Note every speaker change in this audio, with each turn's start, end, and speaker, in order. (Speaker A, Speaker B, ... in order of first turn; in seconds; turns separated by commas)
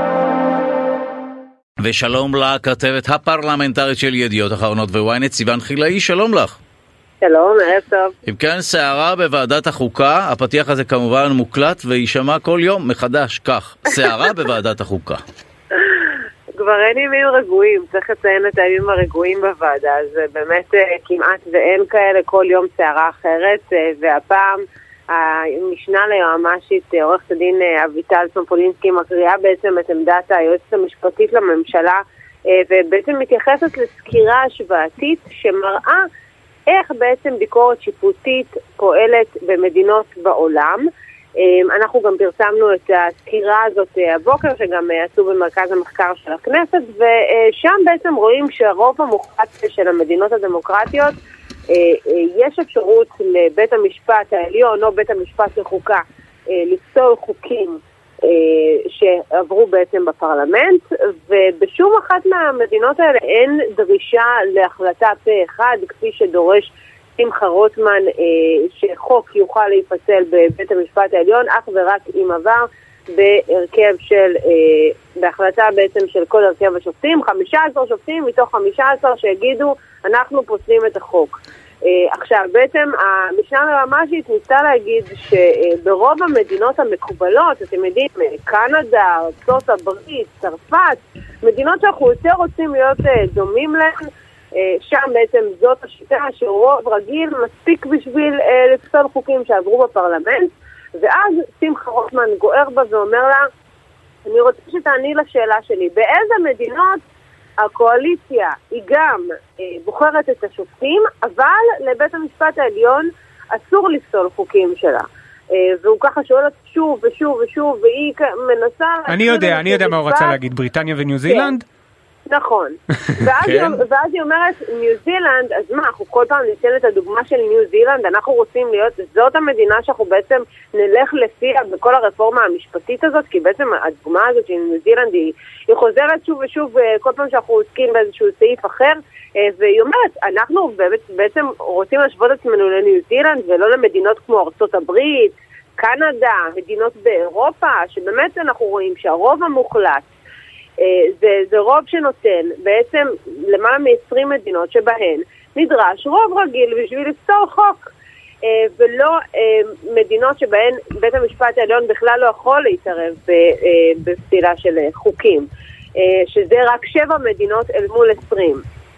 Speaker A: 1.8-6.5, Speaker B: 7.2-8.1, Speaker A: 8.3-15.2, Speaker B: 15.8-24.6, Speaker B: 25.1-36.0, Speaker B: 36.7-40.9, Speaker B: 41.4-51.2, Speaker B: 51.7-103.5, Speaker B: 104.3-107.0, Speaker B: 107.6-120.4, Speaker C: 119.1-121.6, Speaker B: 121.3-121.5, Speaker B: 122.3-150.1, Speaker A: 123.4-123.8, Speaker B: 150.8-157.9, Speaker B: 158.4-168.6